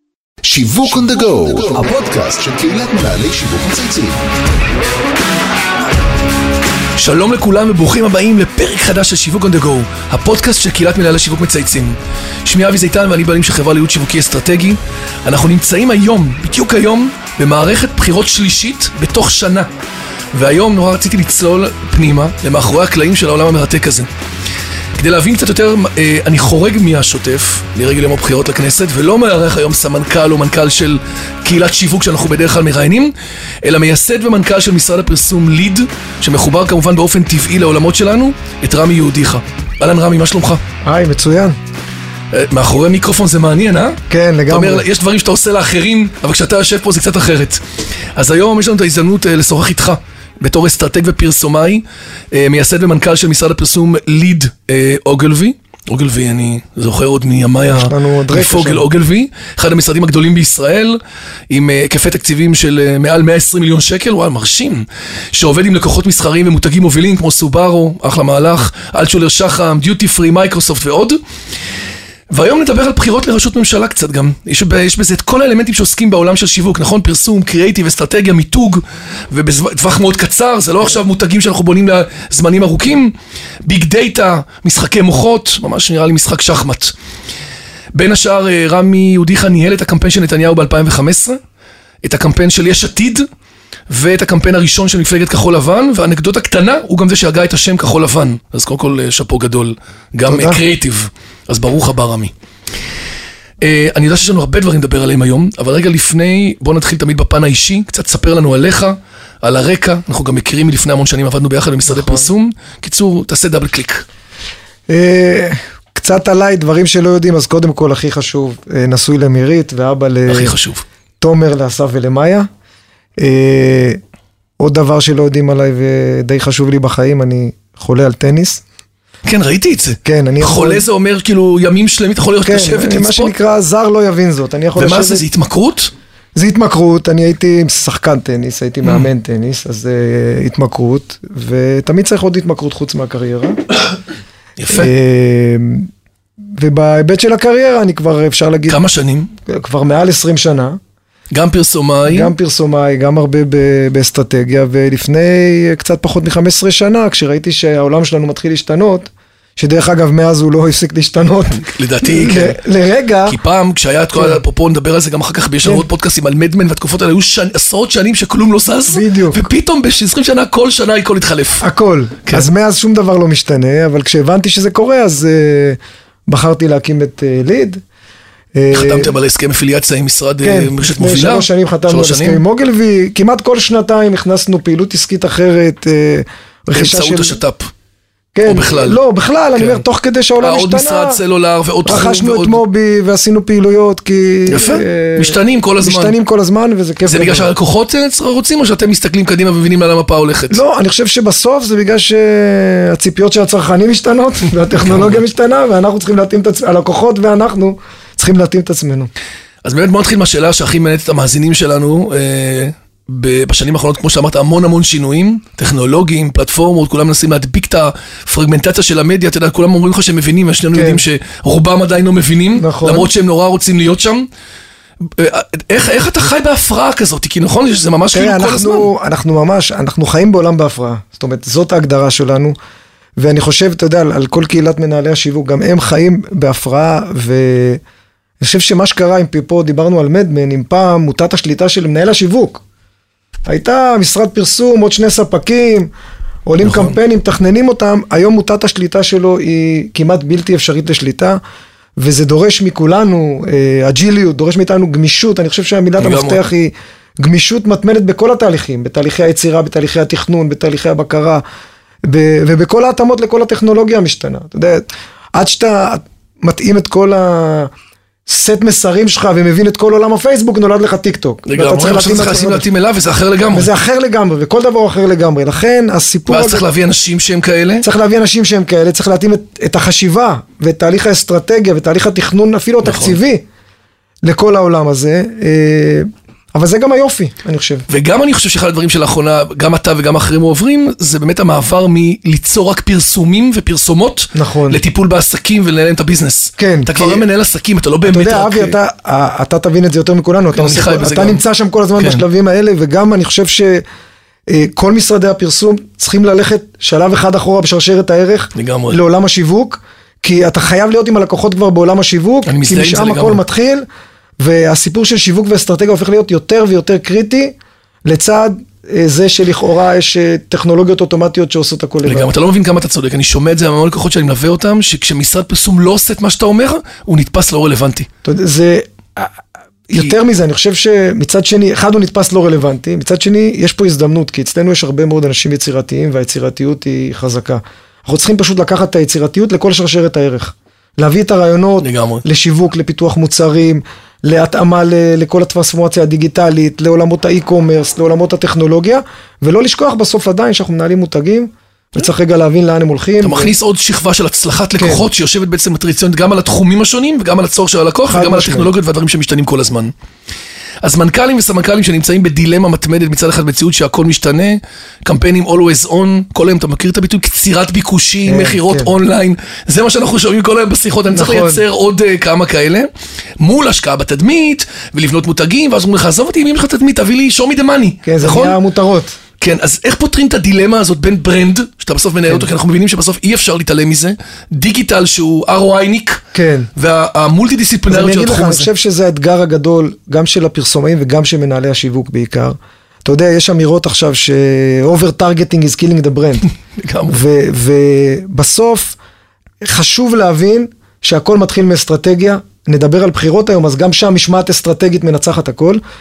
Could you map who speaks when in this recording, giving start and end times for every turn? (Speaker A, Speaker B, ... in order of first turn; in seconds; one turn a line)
Speaker A: 0.4-4.2
Speaker B: 7.0-19.7
Speaker B: 20.3-24.1
Speaker B: 25.0-40.6
Speaker C: 40.8-41.6
Speaker B: 42.3-47.6
Speaker C: 44.1-44.9
Speaker B: 48.1-71.2
Speaker C: 57.7-58.9
Speaker B: 72.3-86.9
Speaker B: 87.9-91.4
Speaker B: 92.0-93.2
Speaker B: 93.9-102.3
Speaker C: 100.3-100.6
Speaker B: 103.6-114.0
Speaker C: 111.9-112.3
Speaker C: 114.9-120.5
Speaker B: 120.3-120.8
Speaker C: 121.2-122.5
Speaker C: 123.2-124.0
Speaker C: 124.6-128.6
Speaker B: 129.3-133.3
Speaker C: 130.1-130.8
Speaker C: 132.4-135.2
Speaker B: 134.8-135.9
Speaker C: 136.3-143.6
Speaker B: 144.6-144.9
Speaker C: 144.7-145.9
Speaker C: 146.5-148.8
Speaker B: 148.7-149.3
Speaker C: 149.5-150.8
Speaker B: 151.3-152.3
Speaker C: 152.1-163.4
Speaker B: 161.5-162.6
Speaker B: 163.3-171.7
Speaker C: 164.2-164.4
Speaker C: 168.9-169.5
Speaker C: 171.6-177.8
Speaker C: 178.5-179.1
Speaker B: 178.7-182.4
Speaker C: 180.4-187.4
Speaker B: 186.7-187.7
Speaker C: 188.3-191.2
Speaker B: 188.4-189.0
Speaker B: 189.6-189.8
Speaker B: 190.4-192.6
Speaker C: 191.8-197.5
Speaker B: 194.5-196.2
Speaker B: 197.1-200.6
Speaker C: 200.5-209.1
Speaker B: 204.8-205.2
Speaker B: 209.6-224.3
Speaker C: 220.7-221.0
Speaker C: 222.6-223.1
Speaker B: 225.2-228.9
Speaker C: 228.1-232.6
Speaker C: 233.2-237.8
Speaker C: 238.4-242.6
Speaker C: 243.5-245.9
Speaker C: 246.5-251.4
Speaker B: 246.6-247.0
Speaker C: 252.0-261.4
Speaker B: 256.0-256.4
Speaker C: 262.0-267.7
Speaker C: 268.3-272.7
Speaker B: 271.5-273.7
Speaker C: 273.5-276.6
Speaker B: 276.3-277.9
Speaker C: 277.8-283.4
Speaker B: 282.8-283.2
Speaker C: 284.2-287.9
Speaker B: 287.9-298.8
Speaker C: 294.4-294.8
Speaker C: 296.6-297.2
Speaker C: 298.1-303.8
Speaker B: 300.5-301.4
Speaker B: 302.0-302.2
Speaker C: 304.5-313.9
Speaker B: 308.6-309.0
Speaker B: 312.4-313.4
Speaker C: 314.4-322.3
Speaker B: 322.1-328.1
Speaker C: 328.2-353.5
Speaker B: 341.8-342.2
Speaker B: 353.2-359.9
Speaker C: 354.8-355.0
Speaker C: 358.1-358.7
Speaker B: 360.8-378.6
Speaker C: 368.2-368.9
Speaker C: 371.1-371.6
Speaker C: 378.1-379.2
Speaker B: 379.4-386.2
Speaker C: 386.3-386.7
Speaker B: 386.8-388.7
Speaker C: 387.9-396.5
Speaker B: 396.8-397.2
Speaker C: 397.1-399.0
Speaker C: 399.6-405.8